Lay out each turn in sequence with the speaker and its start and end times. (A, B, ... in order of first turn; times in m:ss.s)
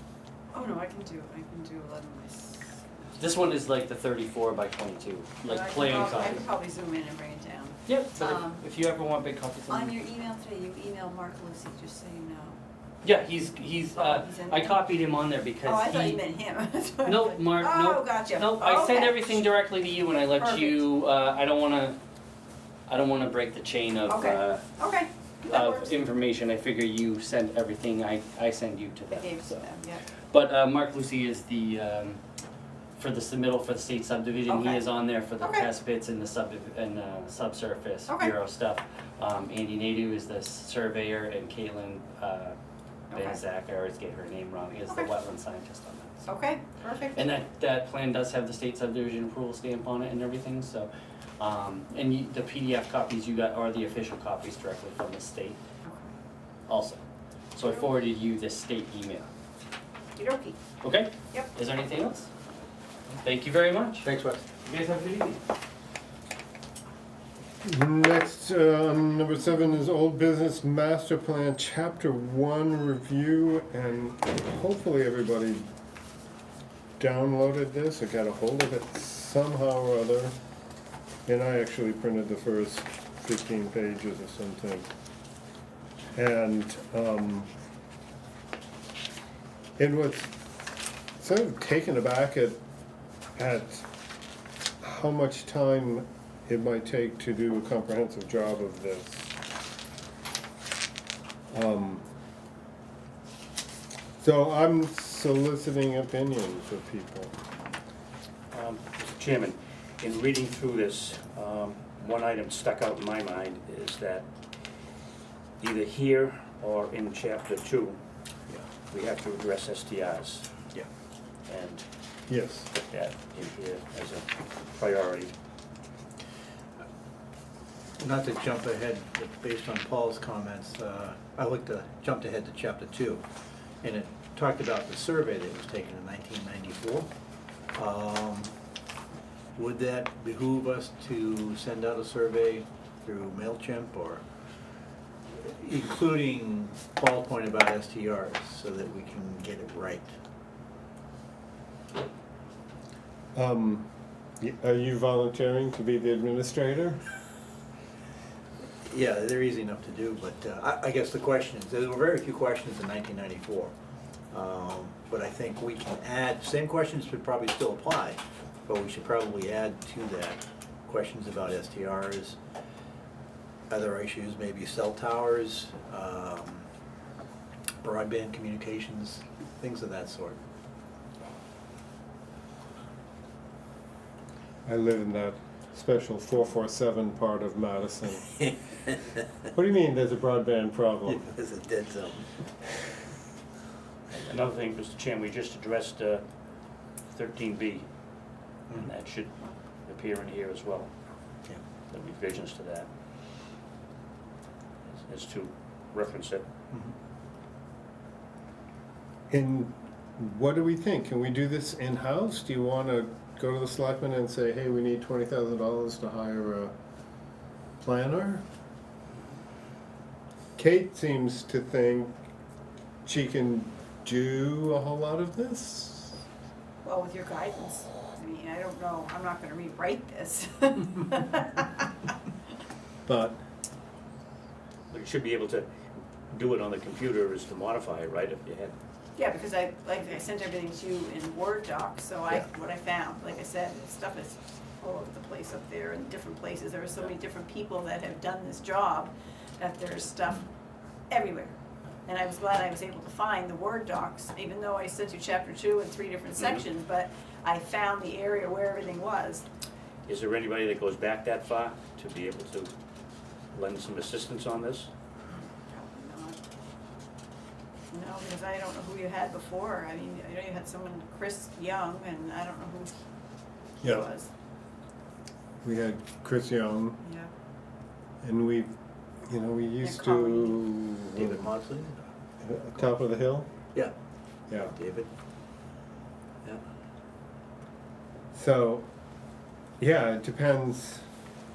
0:00.5-0:03.2 A
0:03.2-0:06.4 B
0:05.4-0:08.6 A
0:07.9-0:10.0 B
0:09.7-0:12.6 A
0:13.0-0:16.2 B
0:14.0-0:14.8 A
0:15.6-0:19.4 A
0:17.0-0:22.0 B
0:20.4-0:20.9 A
0:22.9-0:24.6 B
0:24.1-0:26.0 A
0:25.5-0:29.6 B
0:29.1-0:30.0 A
0:30.3-0:32.2 B
0:33.0-0:42.6 B
0:34.5-0:34.9 A
0:35.4-0:35.7 A
0:38.1-0:38.3 A
0:43.1-0:43.4 A
0:43.1-0:46.2 B
0:46.2-0:47.3 A
0:47.1-0:55.6 B
0:55.8-0:56.1 A
0:56.7-0:57.0 B
0:57.6-0:59.3 B
1:00.2-1:00.6 A
1:00.8-1:02.3 B
1:03.2-1:04.0 B
1:04.0-1:04.5 C
1:04.9-1:05.4 D
1:07.6-1:15.6 E
1:17.0-1:20.4 E
1:21.2-1:24.9 E
1:26.1-1:27.5 E
1:29.8-1:30.4 E
1:31.2-1:32.6 E
1:33.4-1:33.9 E
1:34.8-1:39.3 E
1:41.5-1:42.0 E
1:44.2-1:47.3 E
1:48.5-1:54.2 D
1:55.6-1:58.0 D
1:58.9-2:00.5 D
2:01.5-2:01.8 D
2:02.3-2:02.7 E
2:02.8-2:05.3 D
2:08.0-2:13.2 C
2:13.8-2:17.1 C
2:17.7-2:18.5 C
2:19.6-2:24.2 C
2:25.4-2:30.1 C
2:33.4-2:37.0 E
2:38.8-2:43.7 C
2:44.3-2:52.4 C
2:53.7-2:56.7 C
2:57.8-3:00.4 C
3:04.6-3:08.4 E
3:09.4-3:11.3 E
3:11.1-3:12.3 C
3:14.1-3:16.2 D
3:17.1-3:17.9 D
3:18.7-3:19.4 D
3:19.9-3:20.9 D
3:21.9-3:22.9 D
3:25.0-3:26.4 D
3:29.3-3:36.7 E
3:37.8-3:38.4 E
3:40.6-3:42.2 E
3:43.0-3:46.2 E
3:46.8-3:51.9 A
3:53.1-3:53.4 E
3:54.9-3:55.7 D
3:56.3-3:58.8 D
3:59.2-4:10.5 A
4:11.1-4:11.5 A
4:12.1-4:19.4 A
4:16.4-4:16.7 D
4:20.1-4:22.7 D
4:23.5-4:24.9 D
4:25.3-4:26.4 A
4:27.9-4:32.9 A
4:33.8-4:34.1 E
4:33.8-4:34.3 A
4:35.6-4:37.0 E
4:37.0-4:37.3 A
4:38.2-4:41.5 E
4:39.8-4:40.6 A
4:41.2-4:42.0 C
4:42.4-4:43.5 E
4:44.5-4:44.8 E
4:44.6-4:45.1 C
4:48.3-4:48.9 E
4:49.8-4:51.0 E